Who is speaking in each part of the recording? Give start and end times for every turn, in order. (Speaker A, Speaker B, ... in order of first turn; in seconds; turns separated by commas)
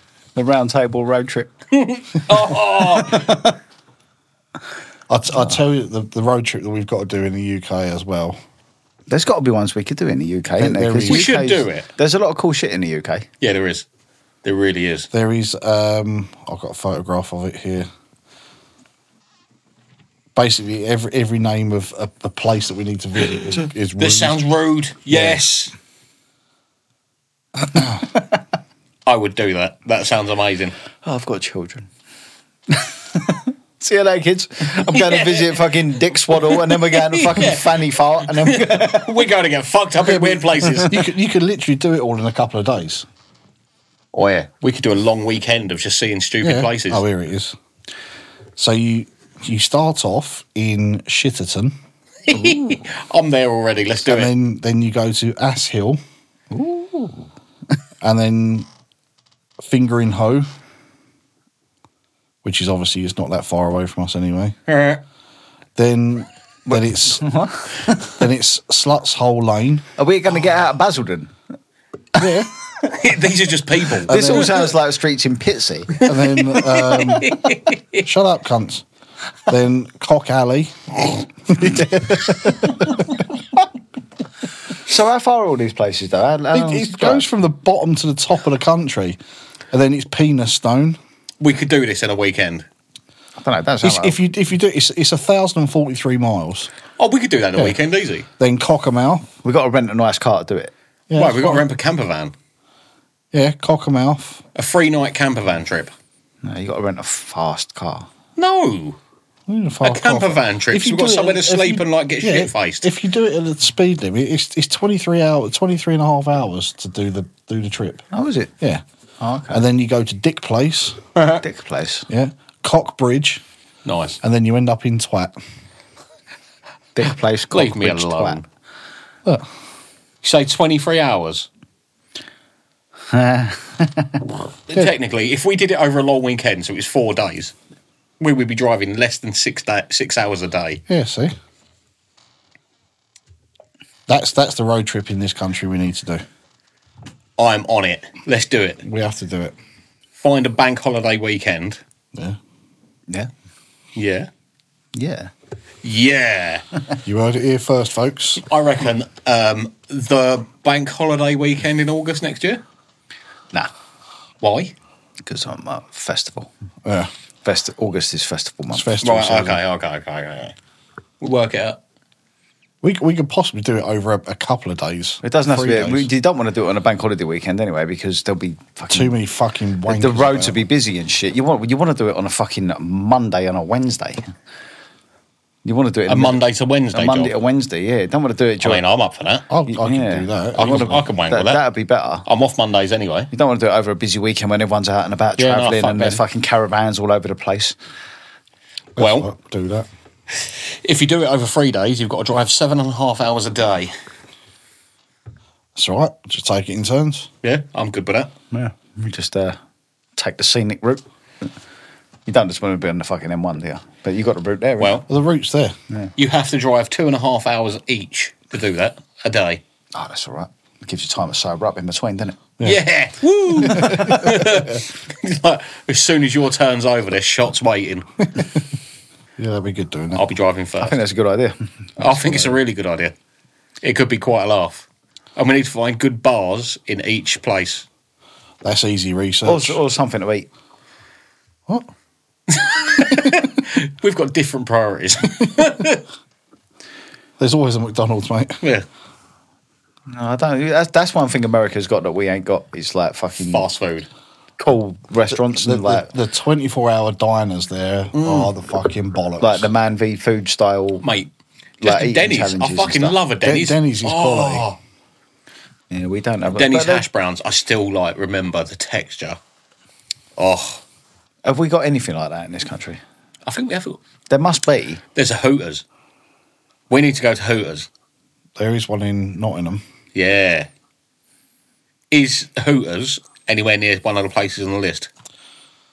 Speaker A: 0.3-1.5, Speaker B: 1.7-3.5, Speaker A: 2.8-3.5, Speaker C: 5.1-8.4, Speaker A: 9.1-13.3, Speaker C: 10.6-11.4, Speaker B: 11.1-11.9, Speaker B: 13.4-13.8, Speaker B: 14.4-15.1, Speaker C: 15.1-17.9, Speaker C: 20.3-24.4, Speaker B: 24.0-25.7, Speaker C: 25.1-25.4, Speaker B: 29.1-30.7, Speaker A: 31.0-31.9, Speaker A: 32.7-39.1, Speaker B: 34.8-35.7, Speaker B: 36.3-41.0, Speaker C: 40.2-43.1, Speaker B: 44.1-47.0, Speaker C: 46.4-47.5, Speaker C: 48.6-51.7, Speaker B: 52.3-54.3, Speaker C: 54.0-56.0, Speaker A: 56.5-57.3, Speaker C: 58.0-58.7, Speaker C: 59.6-60.5, Speaker C: 62.4-64.5, Speaker B: 64.7-65.0, Speaker C: 65.8-67.3, Speaker A: 66.7-68.2, Speaker C: 68.0-69.9, Speaker A: 70.0-71.3, Speaker C: 72.2-72.5, Speaker B: 72.8-74.6, Speaker A: 74.0-75.9, Speaker C: 74.1-74.7, Speaker B: 75.9-78.0, Speaker C: 76.0-77.4, Speaker C: 78.0-78.8, Speaker C: 79.5-83.2, Speaker A: 84.8-87.2, Speaker C: 86.5-89.2, Speaker C: 89.7-91.0, Speaker B: 91.4-92.7, Speaker A: 93.4-94.2, Speaker C: 93.8-96.7, Speaker B: 97.0-98.2, Speaker C: 98.4-99.3, Speaker A: 99.4-100.7, Speaker C: 101.1-101.6, Speaker B: 101.1-102.3, Speaker C: 103.3-104.4, Speaker B: 104.5-105.9, Speaker A: 106.4-108.1, Speaker B: 108.4-109.0, Speaker C: 109.5-118.0, Speaker B: 109.8-112.9, Speaker A: 118.1-118.5, Speaker A: 119.2-119.6, Speaker C: 119.5-121.0, Speaker B: 121.1-121.4, Speaker A: 121.4-122.1, Speaker C: 122.1-123.4, Speaker B: 123.8-124.2, Speaker C: 124.2-125.3, Speaker A: 126.9-128.4, Speaker B: 127.5-128.4, Speaker B: 130.2-131.5, Speaker A: 133.1-134.2, Speaker B: 134.7-137.5, Speaker B: 138.2-140.8, Speaker C: 140.9-141.3, Speaker C: 144.1-146.2, Speaker B: 147.4-148.8, Speaker C: 148.8-149.5, Speaker B: 150.1-151.8, Speaker B: 153.9-154.3, Speaker A: 154.9-155.3, Speaker B: 155.8-156.6, Speaker C: 157.0-158.4, Speaker B: 158.4-162.6, Speaker B: 164.4-164.7, Speaker A: 165.2-166.5, Speaker C: 166.8-167.1, Speaker A: 167.4-169.0, Speaker C: 168.7-169.6, Speaker B: 169.0-170.5, Speaker B: 171.2-171.8, Speaker C: 172.8-176.1, Speaker A: 175.2-179.2, Speaker C: 178.9-180.6, Speaker A: 179.8-184.3, Speaker A: 185.6-186.4, Speaker B: 186.1-187.3, Speaker A: 186.9-188.8, Speaker B: 188.6-189.5, Speaker C: 189.5-191.0, Speaker A: 189.7-192.2, Speaker B: 190.5-191.6, Speaker B: 192.2-193.3, Speaker A: 193.3-197.8, Speaker B: 195.4-196.2, Speaker C: 198.9-199.9, Speaker B: 199.0-199.3, Speaker B: 200.3-203.9, Speaker C: 205.8-207.3, Speaker B: 207.4-208.3, Speaker A: 208.5-209.6, Speaker A: 210.2-211.5, Speaker A: 212.2-215.0, Speaker B: 214.8-215.0, Speaker C: 215.1-215.7, Speaker B: 216.2-219.6, Speaker A: 219.9-222.4, Speaker B: 222.6-228.1, Speaker C: 223.6-224.3, Speaker A: 223.8-224.2, Speaker C: 229.4-230.2, Speaker B: 230.1-231.0, Speaker A: 230.8-232.3, Speaker B: 232.0-233.1, Speaker B: 233.8-237.8, Speaker C: 238.6-239.8, Speaker A: 239.4-240.5, Speaker B: 242.5-246.0, Speaker C: 247.4-248.6, Speaker B: 248.6-248.9, Speaker A: 250.1-253.7, Speaker B: 253.5-254.1, Speaker A: 254.6-256.1, Speaker C: 255.3-259.7, Speaker B: 258.1-258.5, Speaker A: 259.4-261.1, Speaker B: 261.0-264.8, Speaker A: 261.8-263.2, Speaker C: 263.4-264.6, Speaker A: 265.9-267.0, Speaker B: 266.5-269.4, Speaker B: 270.4-270.8, Speaker A: 271.4-273.0, Speaker B: 273.4-274.0, Speaker A: 274.3-275.0, Speaker B: 275.1-275.8, Speaker B: 276.9-277.9, Speaker C: 278.6-279.8, Speaker B: 280.1-280.7, Speaker B: 282.1-285.1